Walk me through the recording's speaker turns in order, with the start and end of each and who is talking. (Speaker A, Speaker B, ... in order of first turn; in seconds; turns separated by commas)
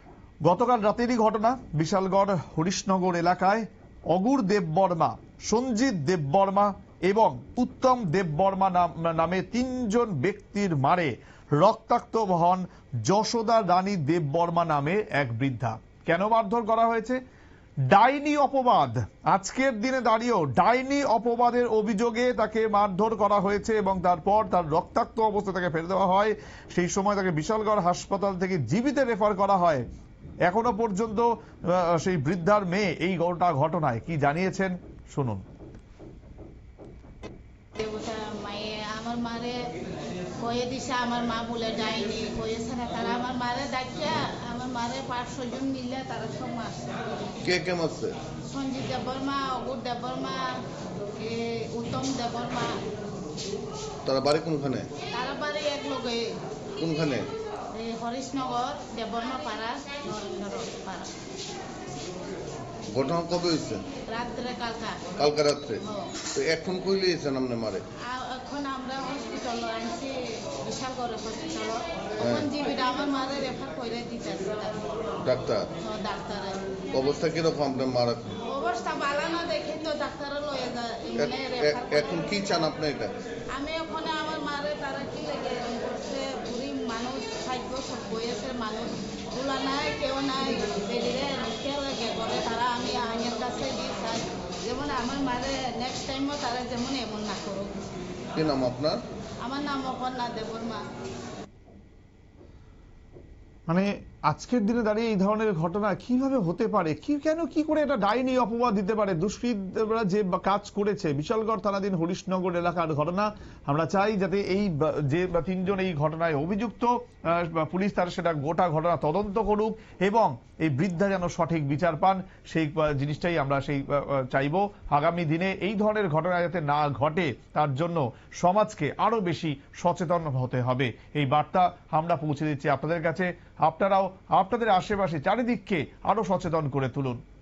Speaker A: 0.4-17.2, Speaker A: 17.9-29.8, Speaker A: 30.5-35.4, Speaker B: 37.8-39.7, Speaker B: 40.4-47.3, Speaker C: 47.4-48.1, Speaker B: 48.5-52.8, Speaker C: 54.0-54.9, Speaker B: 55.1-56.4, Speaker C: 56.7-57.3, Speaker B: 57.7-61.1, Speaker C: 62.9-63.8, Speaker B: 64.0-65.1, Speaker C: 65.2-65.8, Speaker B: 65.8-66.1, Speaker C: 66.3-67.8, Speaker B: 68.0-74.8, Speaker C: 72.2-72.5, Speaker C: 75.2-75.7, Speaker B: 75.8-76.6, Speaker C: 76.9-78.4, Speaker B: 78.4-82.4, Speaker C: 81.1-83.1, Speaker B: 83.5-97.9, Speaker C: 98.3-99.0, Speaker B: 99.4-100.9, Speaker A: 103.7-137.2